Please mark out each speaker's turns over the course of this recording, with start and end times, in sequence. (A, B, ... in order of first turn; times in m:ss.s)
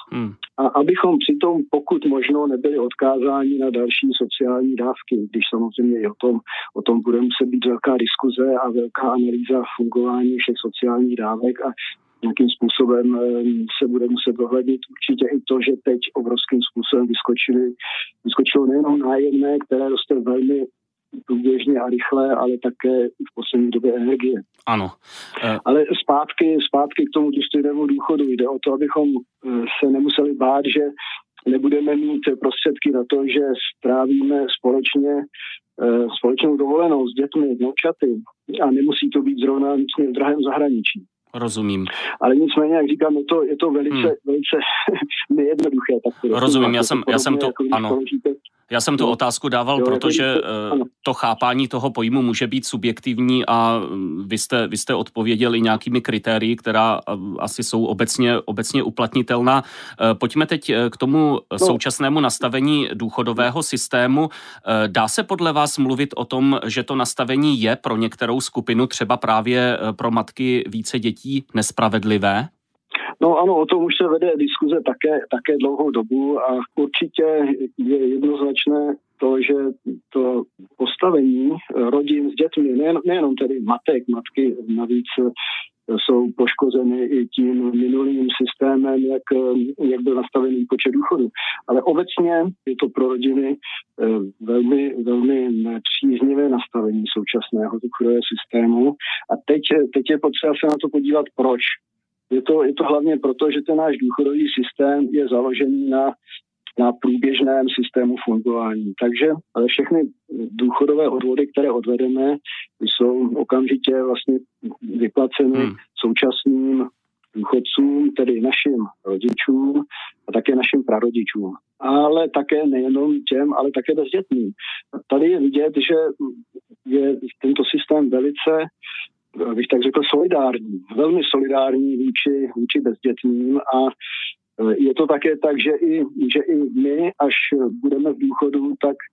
0:00.6-0:20.7 A
0:21.3-0:24.4 A
0:24.7-0:25.6 B
0:25.6-0:30.9 A
0:31.4-0:35.2 A
0:35.8-0:41.1 A
0:41.3-0:41.9 B
0:42.2-0:48.4 A
0:46.3-0:47.9 B
0:48.7-1:12.5 B
0:49.8-0:50.8 A
1:13.2-1:25.3 A
1:25.9-1:41.8 A
1:42.3-1:46.1 A
1:46.8-2:08.7 A
2:09.4-2:13.9 A
2:14.6-2:19.0 A